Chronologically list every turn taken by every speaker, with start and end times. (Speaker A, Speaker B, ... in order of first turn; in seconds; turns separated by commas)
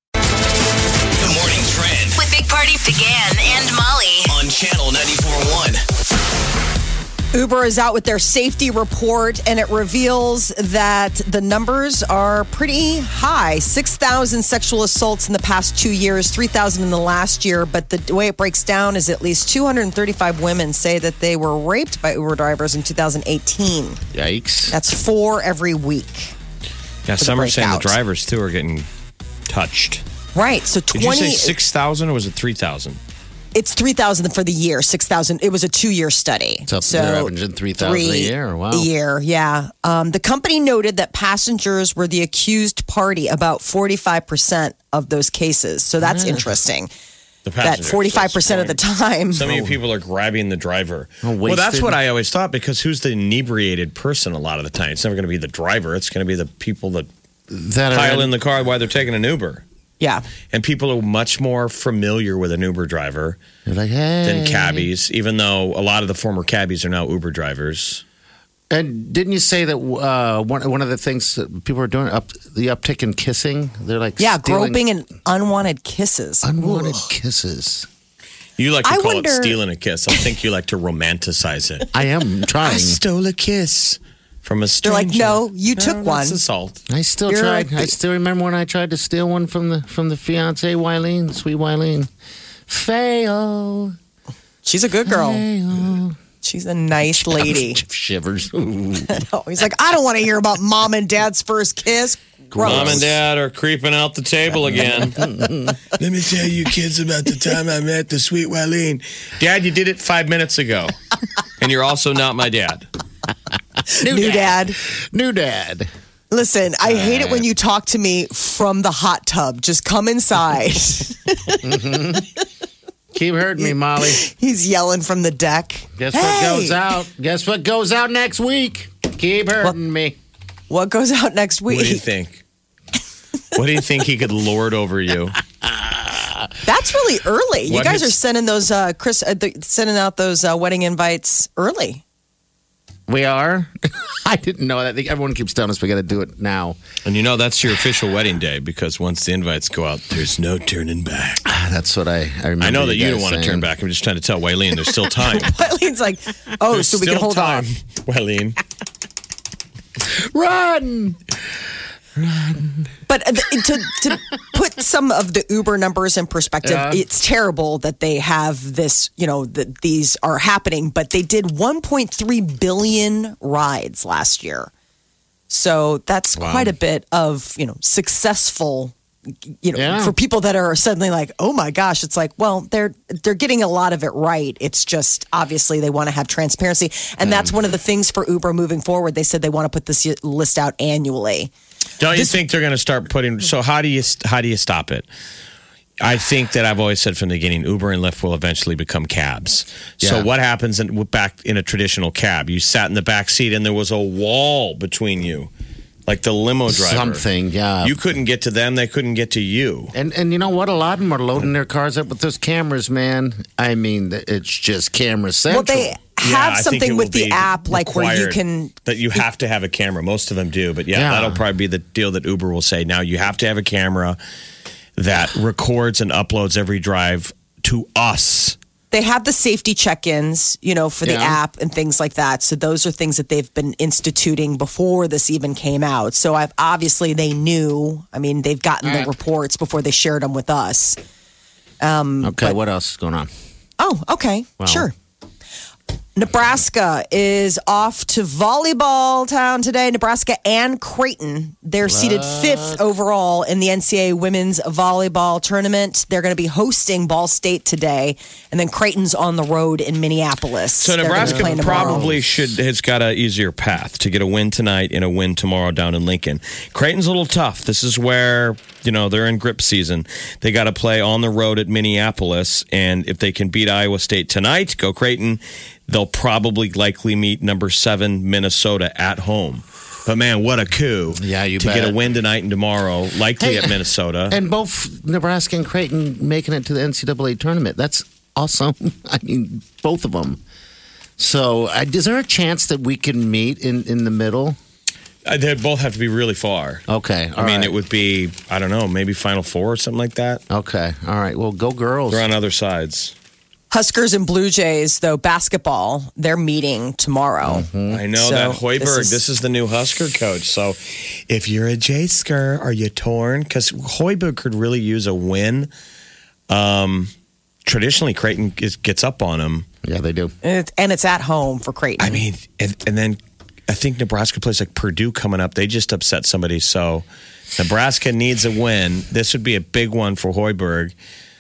Speaker A: 1.2-2.2, Speaker B: 2.1-4.3, Speaker A: 4.2-5.8, Speaker C: 7.3-24.0, Speaker D: 24.1-24.8, Speaker C: 24.7-26.3, Speaker E: 27.1-28.9, Speaker C: 27.2-28.0, Speaker E: 29.5-30.0, Speaker C: 30.3-31.6, Speaker E: 30.9-33.0, Speaker C: 33.5-46.9, Speaker D: 36.7-38.9, Speaker D: 46.0-46.6, Speaker E: 47.4-48.8, Speaker C: 47.6-49.5, Speaker E: 49.3-57.1, Speaker D: 49.4-49.8, Speaker D: 51.2-52.0, Speaker D: 57.5-58.3, Speaker E: 57.9-59.6, Speaker E: 60.5-63.4, Speaker D: 63.6-64.9, Speaker E: 64.2-68.0, Speaker D: 68.7-74.8, Speaker C: 74.2-77.1, Speaker D: 76.4-77.9, Speaker E: 78.6-81.9, Speaker C: 78.8-79.6, Speaker D: 81.9-83.0, Speaker E: 82.6-86.8, Speaker C: 84.8-86.4, Speaker D: 86.9-92.1, Speaker C: 87.3-87.9, Speaker D: 92.7-93.9, Speaker C: 94.6-95.4, Speaker D: 95.0-96.2, Speaker C: 96.4-97.8, Speaker D: 97.0-99.1, Speaker C: 99.1-103.0, Speaker D: 102.5-103.2, Speaker E: 102.6-110.9, Speaker D: 104.6-105.9, Speaker E: 111.6-112.9, Speaker C: 113.9-114.8, Speaker D: 114.0-115.9, Speaker C: 116.3-121.6, Speaker D: 116.8-117.4, Speaker D: 121.6-122.3, Speaker D: 123.1-124.2, Speaker C: 123.6-126.9, Speaker D: 126.0-130.2, Speaker C: 130.7-132.0, Speaker E: 131.7-132.4, Speaker E: 133.5-135.4, Speaker D: 135.6-136.5, Speaker C: 136.6-142.0, Speaker E: 137.7-138.1, Speaker D: 143.1-146.8, Speaker E: 147.0-151.4, Speaker D: 151.4-153.7, Speaker E: 152.6-155.5, Speaker C: 155.2-157.6, Speaker E: 156.7-158.6, Speaker D: 160.0-161.2, Speaker D: 162.2-162.9, Speaker C: 163.1-174.7, Speaker D: 166.6-167.0, Speaker C: 175.5-178.9, Speaker D: 176.4-176.7, Speaker C: 179.6-191.5, Speaker D: 179.7-180.1, Speaker D: 187.2-187.6, Speaker E: 192.0-195.1, Speaker E: 196.0-205.5, Speaker D: 200.0-200.3, Speaker E: 206.1-207.2, Speaker D: 206.7-208.0, Speaker E: 207.8-209.9, Speaker D: 209.9-215.9, Speaker C: 215.5-218.7, Speaker E: 216.2-224.2, Speaker D: 220.9-221.4, Speaker E: 225.0-228.6, Speaker C: 228.9-241.0, Speaker D: 231.0-231.4, Speaker D: 238.8-239.1, Speaker C: 241.8-242.6, Speaker D: 242.2-243.3, Speaker C: 243.8-244.9, Speaker D: 244.6-244.9, Speaker C: 246.2-262.1, Speaker D: 251.8-252.8, Speaker E: 260.8-284.4, Speaker D: 261.1-262.2, Speaker D: 281.2-282.0, Speaker D: 283.4-290.4, Speaker D: 291.2-294.6, Speaker E: 295.2-296.8, Speaker D: 296.9-297.7, Speaker E: 297.4-300.4, Speaker D: 300.5-302.2, Speaker E: 302.1-303.1, Speaker C: 303.7-309.2, Speaker D: 307.4-308.0, Speaker E: 307.9-315.7, Speaker E: 316.5-317.1, Speaker E: 317.6-319.6, Speaker D: 319.8-320.3, Speaker C: 320.4-322.2, Speaker E: 322.0-327.0, Speaker E: 327.6-330.9